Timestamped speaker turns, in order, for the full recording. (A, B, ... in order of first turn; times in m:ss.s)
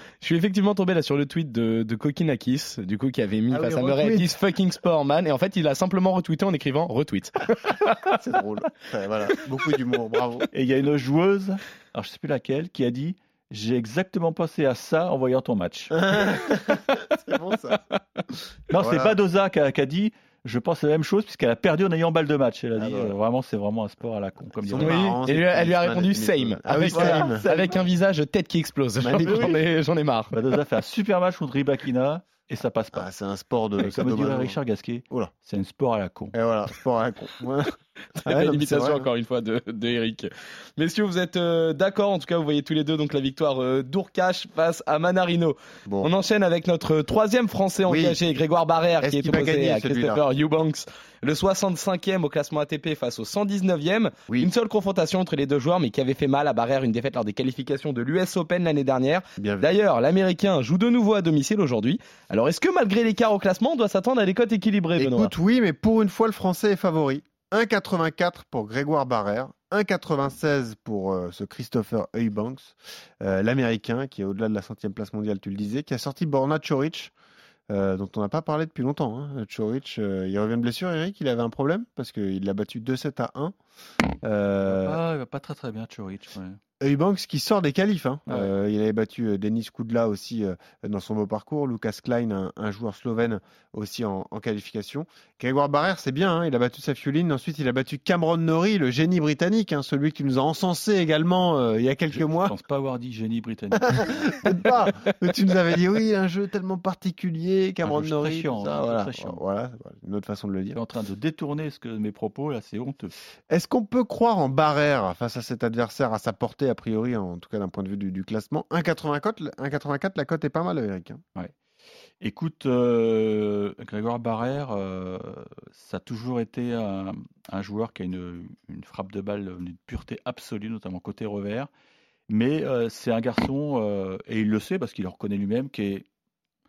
0:00.2-0:08.2 A
0:03.5-0:04.3 B
0:08.1-0:10.5 B
0:10.5-0:16.0 C
0:15.9-0:17.8 B
0:18.7-0:25.1 C
0:18.8-0:19.2 B
0:22.8-0:23.2 B
0:24.6-0:27.4 B
0:24.8-0:30.4 A
0:26.9-0:27.8 C
0:29.0-0:29.6 B
0:29.2-0:29.6 C
0:30.3-0:33.1 C
0:32.9-0:34.6 B
0:33.8-0:36.4 C
0:36.3-0:37.7 B
0:38.2-1:05.3 A
0:38.3-0:39.1 B
0:47.9-0:48.2 B
0:49.0-0:50.2 B
0:59.4-0:59.7 B
1:05.0-1:17.1 B
1:17.7-1:23.6 B
1:24.2-1:25.0 B
1:24.6-1:26.6 C
1:26.8-1:42.5 B
1:42.1-1:44.8 C
1:43.8-1:50.8 B
1:47.8-1:49.4 C
1:50.7-1:53.1 C
1:53.5-2:01.2 B
2:02.2-2:11.7 C
2:12.3-2:16.1 C